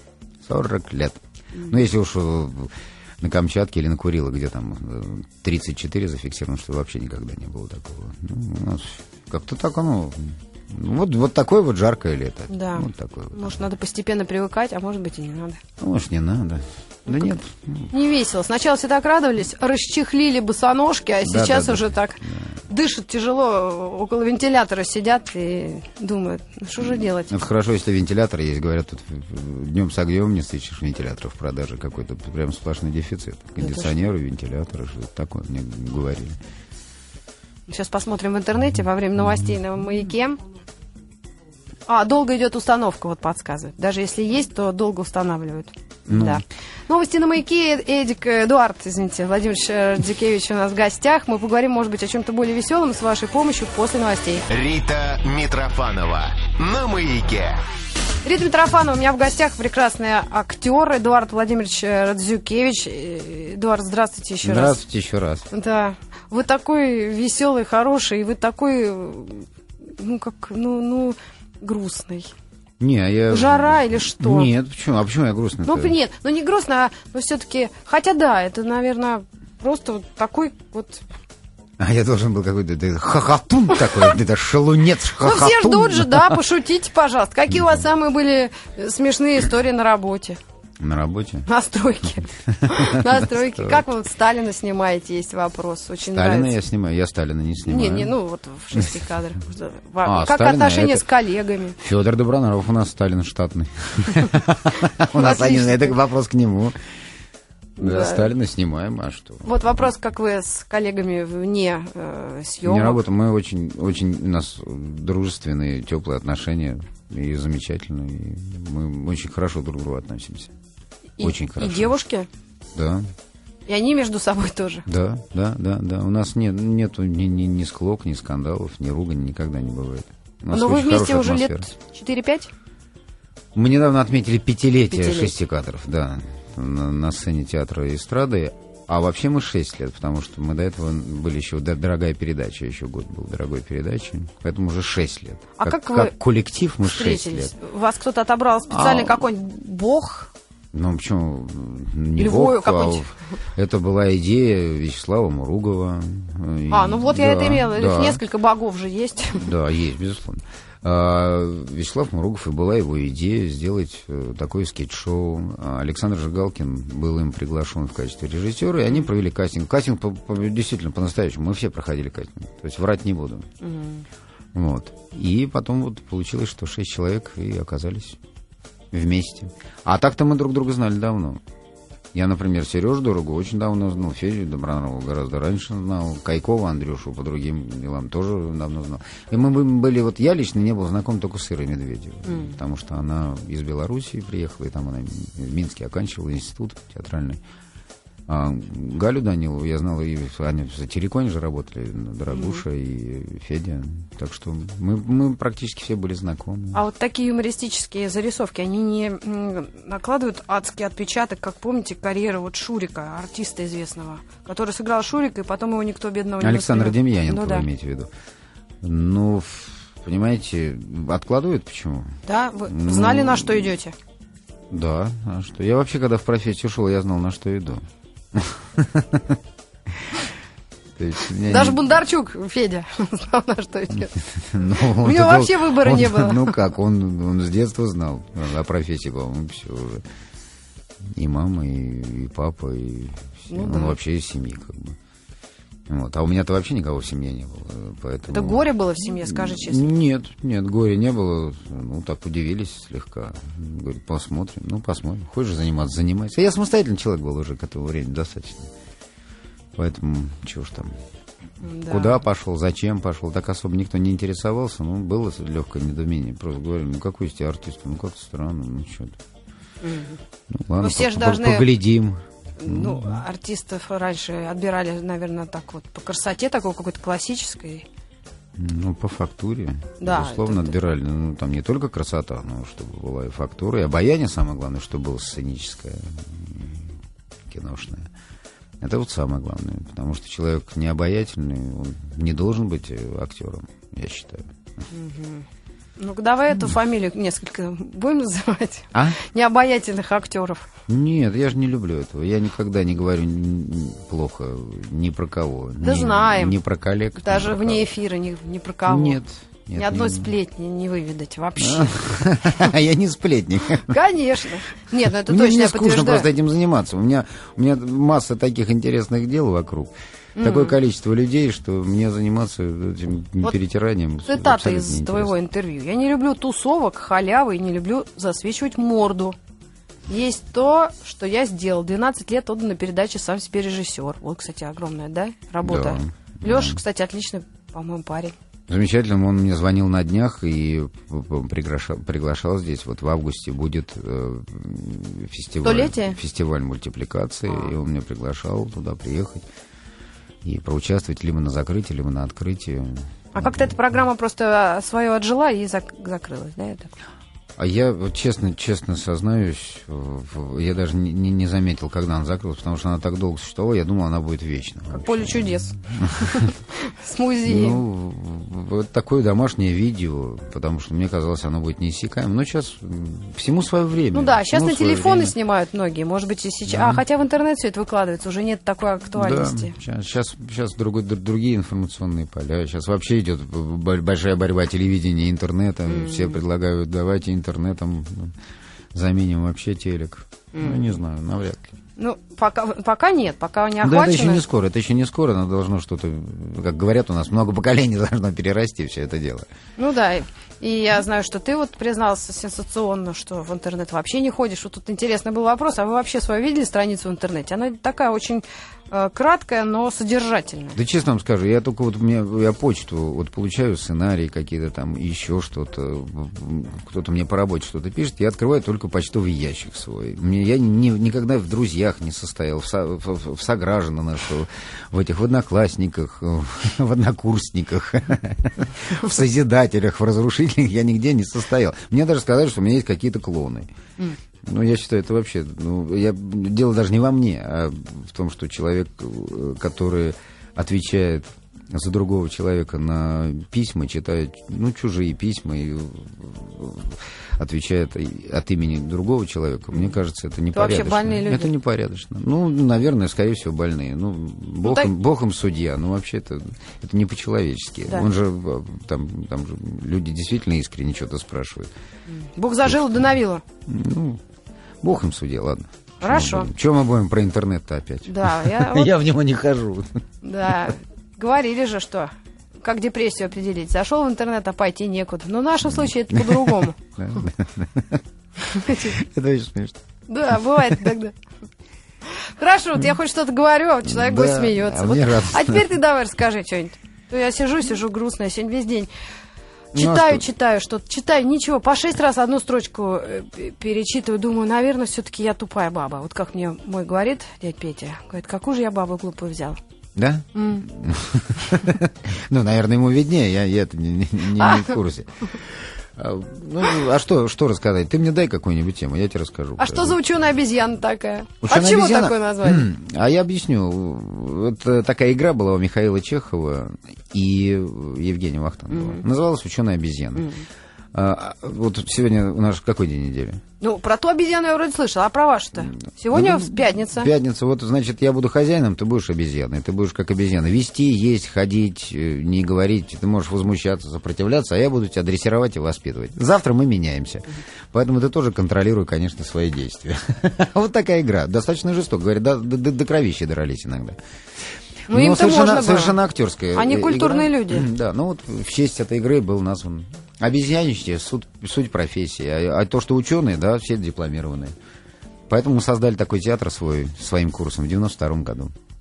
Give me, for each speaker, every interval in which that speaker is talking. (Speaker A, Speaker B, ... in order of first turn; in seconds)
Speaker A: 0.4-13.6, 15.8-17.9, 21.2-22.5, 26.8-36.4, 46.1-46.4, 64.4-65.5, 72.8-76.0, 81.8-86.4, 90.8-91.5, 92.5-93.9, 96.1-98.2, 100.0-101.0, 101.8-106.8, 107.8-109.9, 112.6-120.5, 121.2-121.9, 122.8-123.1, 124.9-131.7, 133.6-147.5, 148.7-149.2, 150.7-158.2, 159.4-173.5, 174.5-178.2, 178.9-181.4, 182.1-197.4, 198.3-206.8, 216.4-218.1, 218.8-222.2, 222.7-223.7, 224.7-229.4, 231.0-231.8, 234.3-240.0, 241.1-245.0, 245.9-258.7, 259.8-260.9, 261.9-269.2, 270.5-273.2, 278.6-286.9, 287.5-288.1, 288.8-294.5, 300.9-307.9, 308.9-310.3, 311.6-314.0, 315.2-325.3, 335.6-336.8, 338.7-349.5, 350.4-353.7, 357.6-366.5, 367.4-375.3, 376.7-377.0, 379.2-388.4, 388.9-391.7, 393.8-399.5, 410.8-433.7, 434.4-461.7, 462.6-463.1, 463.7-464.2, 464.8-469.9, 475.8-478.0, 478.6-479.8, 483.9-485.7, 489.8-490.3, 500.0-510.0, 511.4-520.3, 520.9-523.4, 526.1-544.0, 544.9-554.5, 555.3-558.5
Speaker B: 12.5-15.6, 17.1-17.4, 17.9-27.4, 33.6-33.9, 37.7-40.4, 41.9-54.5, 58.2-64.8, 65.5-72.3, 73.3-74.5, 75.7-81.0, 85.2-90.4, 91.5-96.5, 97.7-101.8, 105.1-106.0, 107.8-108.3, 109.4-113.0, 121.2-122.3, 123.7-124.9, 130.5-132.5, 134.9-135.3, 145.6-146.1, 146.8-150.3, 152.2-153.1, 156.7-159.5, 173.6-174.1, 192.2-192.6, 202.3-202.6, 206.7-217.7, 222.2-223.9, 231.5-234.2, 234.8-236.6, 243.5-244.0, 248.3-249.9, 261.6-262.2, 269.8-270.2, 270.8-271.7, 272.6-277.9, 280.0-280.8, 294.9-295.5, 296.0-300.7, 305.8-306.6, 307.2-309.2, 309.8-312.1, 313.9-316.3, 320.4-320.8, 324.3-329.4, 330.1-338.4, 345.6-346.2, 347.5-347.7, 353.3-356.9, 364.9-367.8, 374.1-379.8, 385.9-386.4, 390.5-390.9, 392.0-394.4, 399.8-410.8, 450.5-451.5, 454.6-454.9, 462.1-463.4, 466.0-466.5, 468.1-468.9, 470.2-476.8, 478.4-479.0, 480.1-481.2, 482.1-488.9, 489.7-499.6, 500.4-500.7, 504.4-504.7, 509.6-512.7, 518.7-519.0, 520.2-520.4, 523.6-527.1, 544.9-546.0, 546.5-547.7
Speaker C: 54.5-57.6